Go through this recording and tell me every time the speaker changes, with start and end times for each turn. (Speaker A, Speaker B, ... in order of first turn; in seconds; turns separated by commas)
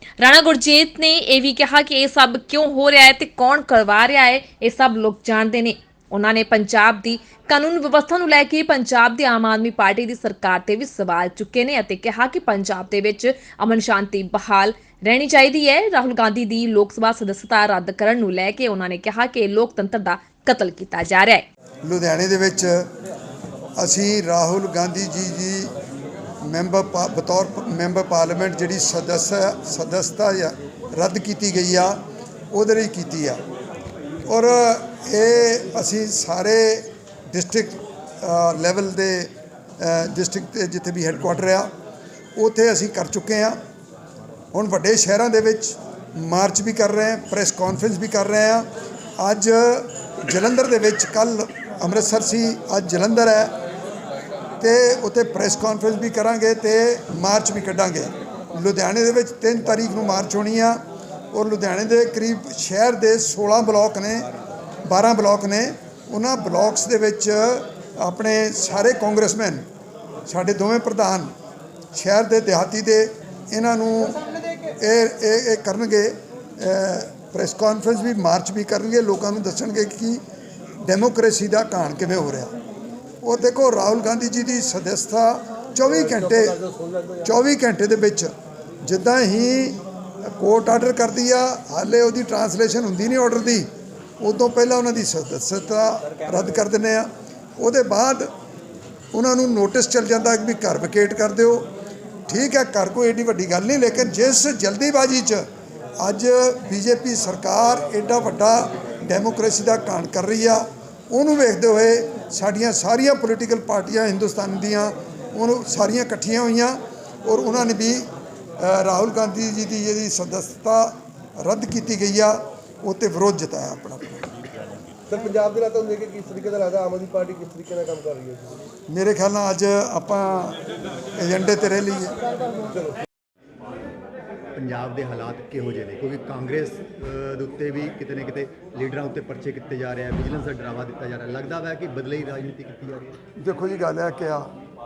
Speaker A: 0.2-21.4, Speaker B: 21.8-22.9, Speaker B: 23.8-25.7, Speaker B: 26.4-32.0, Speaker B: 32.5-33.4, Speaker B: 34.3-41.7, Speaker B: 42.4-43.6, Speaker B: 44.5-48.7, Speaker B: 49.2-53.5, Speaker B: 54.6-60.8, Speaker B: 61.3-64.3, Speaker B: 64.8-69.6, Speaker B: 70.3-71.3, Speaker B: 71.9-74.2, Speaker B: 74.8-80.2, Speaker B: 80.8-82.5, Speaker B: 83.2-86.6, Speaker C: 86.1-87.2, Speaker B: 87.2-93.7, Speaker B: 94.2-98.3, Speaker B: 99.1-101.7, Speaker B: 102.3-105.4, Speaker B: 106.0-118.1, Speaker B: 118.6-124.3, Speaker C: 125.1-128.6, Speaker B: 128.9-130.6, Speaker B: 131.2-132.2, Speaker C: 132.5-132.9, Speaker D: 134.5-143.2, Speaker B: 143.4-144.5